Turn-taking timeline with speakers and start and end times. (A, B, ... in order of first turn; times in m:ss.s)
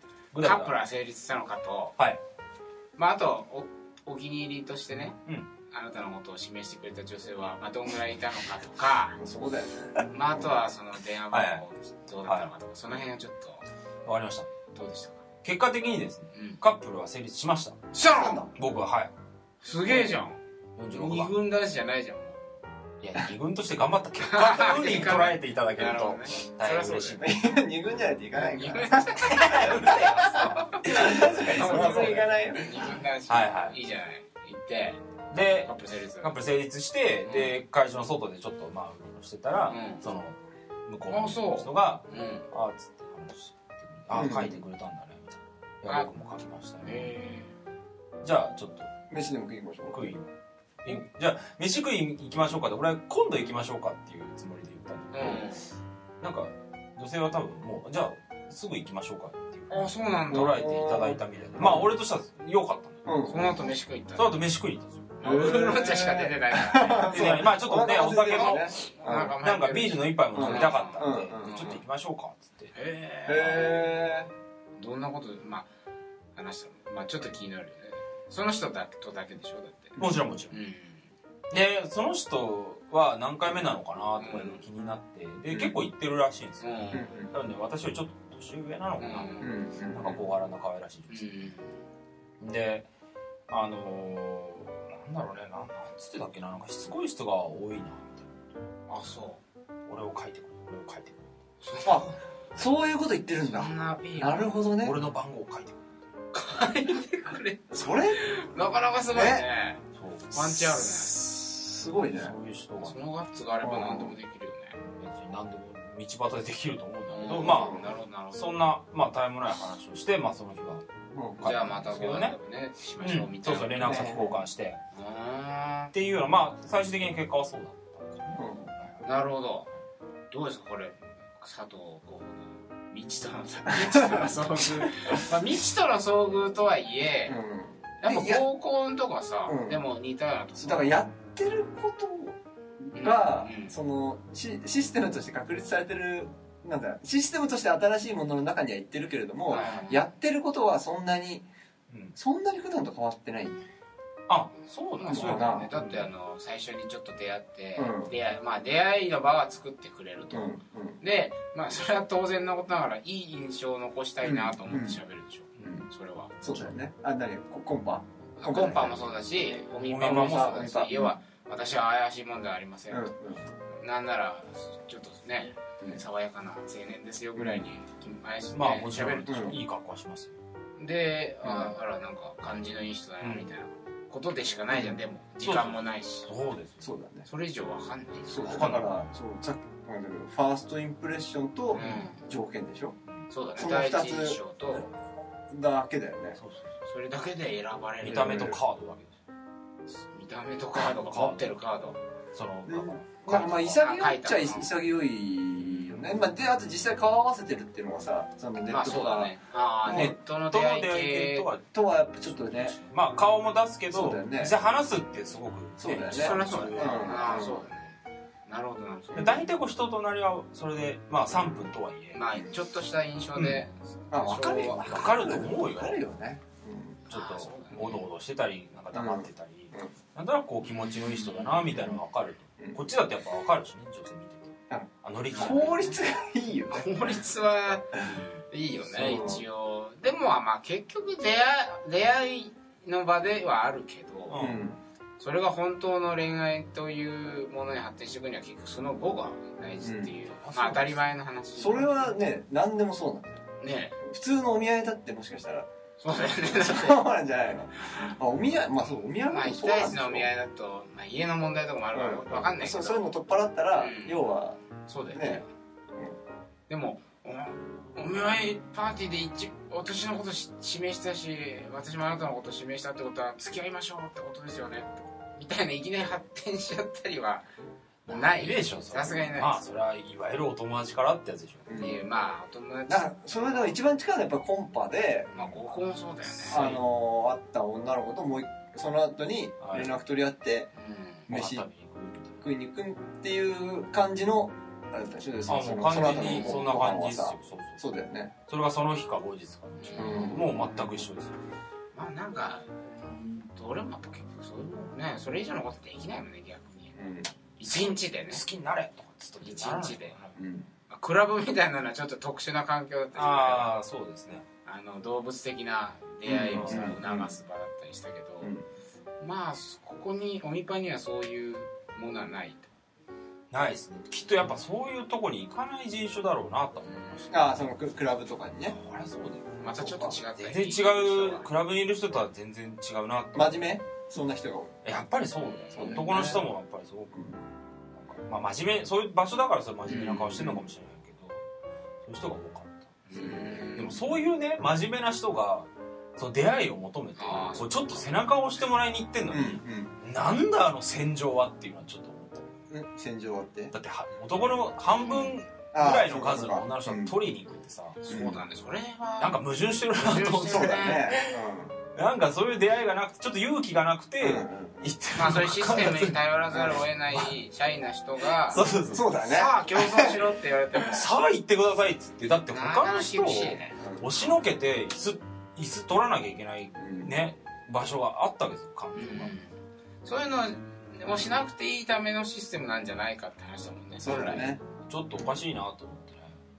0:00.3-0:00.8 A
0:00.4-0:02.0 B
0:03.0-0:05.2 B
0:05.7-0:09.2 B
0:09.2-0:10.6 C
0:10.1-0:13.6 B
0:11.3-0:11.6 A
0:12.2-0:12.5 A
0:14.0-0:14.5 A
0:14.7-0:15.2 B
0:15.4-0:17.9 A
0:16.3-0:16.6 B
0:17.9-0:18.5 B
0:18.1-0:18.5 C
0:18.6-0:19.1 A
0:19.6-0:20.4 B
0:20.8-0:21.3 A
0:20.9-0:22.4 B
0:23.0-0:27.3 A
0:24.2-0:27.2 B
0:27.2-0:30.0 C
0:28.4-0:35.0 B
0:29.3-0:32.3 A
0:30.8-0:33.0 C
0:33.3-0:33.8 A
0:35.3-0:47.1 A
0:35.6-0:36.3 B
0:37.2-0:37.6 B
0:39.7-0:40.0 B
0:41.1-0:42.5 B
0:44.1-0:44.6 C
0:46.8-0:47.5 B
0:48.2-0:48.9 A
0:49.1-0:50.1 C
0:49.9-0:50.3 A
0:50.8-0:55.5 A
0:55.1-0:55.7 B
0:56.2-1:03.0 A
0:59.7-1:00.8 B
1:00.3-1:01.9 C
1:03.0-1:03.6 C
1:03.3-1:04.4 B
1:04.2-1:05.1 A
1:05.2-1:07.4 B
1:05.2-1:09.4 C
1:07.1-1:12.7 A
1:08.3-1:11.8 B
1:10.3-1:11.8 C
1:12.7-1:14.1 B
1:13.3-1:14.3 C
1:14.8-1:15.7 B
1:16.4-1:21.1 B
1:20.0-1:20.6 A
1:21.5-1:29.4 A
1:24.2-1:24.6 B
1:25.5-1:25.8 C
1:26.6-1:27.1 B
1:26.9-1:27.3 C
1:29.0-1:29.6 B
1:29.4-1:30.2 C
1:29.9-1:31.5 A
1:31.1-1:31.8 B
1:32.4-1:32.9 A
1:33.5-1:38.4 A
1:38.9-1:39.4 B
1:39.9-1:41.3 A
1:41.6-1:42.2 B
1:41.8-1:45.0 C
1:43.4-1:44.7 B
1:44.8-1:45.9 A
1:46.3-1:51.2 B
1:47.7-1:48.2 C
1:49.1-1:49.5 C
1:50.0-1:50.9 A
1:50.9-1:52.3 C
1:52.0-1:53.0 A
1:52.8-1:54.8 B
1:53.6-1:54.2 C
1:54.8-2:00.8 A
1:57.1-1:58.4 B
1:57.4-1:57.9 C
2:01.1-2:01.4 C
2:01.4-2:02.4 A
2:01.4-2:04.2 B
2:03.0-2:04.8 A
2:03.8-2:04.4 C
2:04.9-2:05.9 B
2:05.9-2:09.1 A
2:08.4-2:08.7 C
2:09.0-2:09.7 B
2:10.3-2:17.4 B
2:13.8-2:14.3 C
2:17.3-2:18.4 C
2:18.0-2:21.0 B
2:19.5-2:19.8 C
2:20.6-2:31.5 C
2:23.0-2:23.8 B
2:29.5-2:30.1 B
2:31.9-2:32.2 A
2:32.2-2:33.6 C
2:34.3-2:36.1 A
2:35.0-2:46.7 B
2:35.1-2:35.7 C
2:37.8-2:38.1 C
2:40.3-2:41.0 C
2:44.2-2:45.0 C
2:46.4-2:49.1 C
2:48.4-2:53.1 B
2:49.8-2:50.8 A
2:50.1-2:51.2 C
2:52.9-2:53.5 C
2:53.7-2:59.6 B
2:57.4-2:57.7 C
2:58.5-3:00.4 A
2:59.3-2:59.6 C
3:00.8-3:06.3 B
3:03.2-3:03.5 A
3:04.7-3:05.0 C
3:05.4-3:06.9 A
3:06.8-3:07.3 C
3:07.3-3:08.8 B
3:08.3-3:13.0 C
3:08.4-3:08.9 A
3:11.7-3:12.2 B
3:11.8-3:12.1 A
3:13.3-3:14.9 B
3:13.6-3:14.8 C
3:15.5-3:16.4 C
3:16.4-3:16.8 A
3:16.8-3:18.6 B
3:18.0-3:19.2 A
3:18.1-3:18.6 C
3:19.9-3:22.0 B
3:20.9-3:21.5 A
3:22.3-3:23.8 A
3:22.7-3:29.3 C
3:23.4-3:24.7 B
3:28.7-3:31.5 B
3:29.9-3:30.1 C
3:29.9-3:37.6 A
3:31.7-3:32.8 C
3:33.9-3:34.5 C
3:35.8-3:37.6 C
3:36.1-3:39.5 B
3:39.2-3:42.2 A
3:42.1-3:45.2 B
3:43.4-3:43.6 A
3:44.1-3:47.0 C
3:44.8-3:46.0 A
3:47.1-3:48.1 B
3:47.1-3:55.9 A
3:48.9-3:49.9 C
3:50.6-3:52.0 B
3:51.8-3:52.0 C
3:54.7-3:57.1 C
3:55.3-3:56.0 B
3:56.7-4:04.4 B
3:58.9-3:59.4 C
4:04.3-4:04.6 A
4:04.4-4:04.8 C
4:05.2-4:12.1 B
4:09.8-4:10.1 C
4:10.3-4:11.0 A
4:11.6-4:13.4 C
4:13.6-4:14.0 B
4:14.0-4:20.3 C
4:16.0-4:17.0 B
4:17.8-4:18.2 B
4:19.2-4:23.1 B
4:21.9-4:24.6 C
4:23.8-4:24.2 B
4:24.9-4:25.5 B
4:25.1-4:26.2 C
4:26.7-4:37.4 B
4:38.1-4:41.7 A
4:38.1-4:39.6 B
4:41.7-4:42.0 C
4:41.8-4:43.5 B
4:42.9-4:45.3 C
4:45.3-4:46.8 B
4:46.3-4:46.8 A
4:46.5-4:50.7 C
4:49.6-4:50.0 A
4:50.8-4:51.3 B
4:51.3-4:51.6 C
4:51.3-4:52.4 A
4:52.4-4:58.3 C
4:55.5-4:57.8 A
4:58.5-5:01.4 A
4:59.8-5:00.4 B
5:00.0-5:00.9 C
5:01.9-5:07.0 B
5:07.0-5:07.3 C
5:07.6-5:08.4 B
5:07.8-5:10.4 A
5:09.4-5:10.2 B
5:10.4-5:10.7 C
5:10.9-5:13.7 B
5:13.1-5:14.4 A
5:14.6-5:18.5 B
5:16.3-5:17.4 C
5:16.5-5:17.0 A
5:18.4-5:18.7 C
5:19.2-5:22.7 B
5:23.5-5:27.8 A
5:26.8-5:27.3 B
5:27.3-5:28.8 C
5:28.7-5:29.6 A
5:29.6-5:31.5 B
5:29.7-5:30.2 C
5:30.4-5:33.7 A
5:33.3-5:34.8 C
5:34.8-5:37.3 A
5:35.4-5:36.0 B
5:35.8-5:36.5 C
5:37.1-5:37.4 C
5:38.0-5:41.4 A
5:39.9-5:40.6 B
5:40.4-5:40.6 C
5:42.0-5:52.6 A
5:43.1-5:44.0 B
5:43.2-5:43.6 C
5:47.2-5:48.0 B
5:49.3-5:49.9 C
5:52.7-5:53.7 C
5:53.7-5:58.4 A
5:55.0-5:55.4 B
5:55.7-5:57.1 C
5:58.1-5:59.4 B
5:58.1-5:58.4 C
5:59.2-6:01.4 A
5:59.9-6:01.1 B
6:00.5-6:01.8 C
6:01.9-6:07.3 A
6:04.2-6:04.9 C
6:05.1-6:11.1 B
6:06.6-6:06.8 C
6:08.5-6:09.1 A
6:08.9-6:10.2 C
6:10.8-6:19.3 A
6:12.5-6:14.3 B
6:16.8-6:17.1 C
6:19.0-6:24.6 B
6:24.0-6:24.6 C
6:24.1-6:26.4 A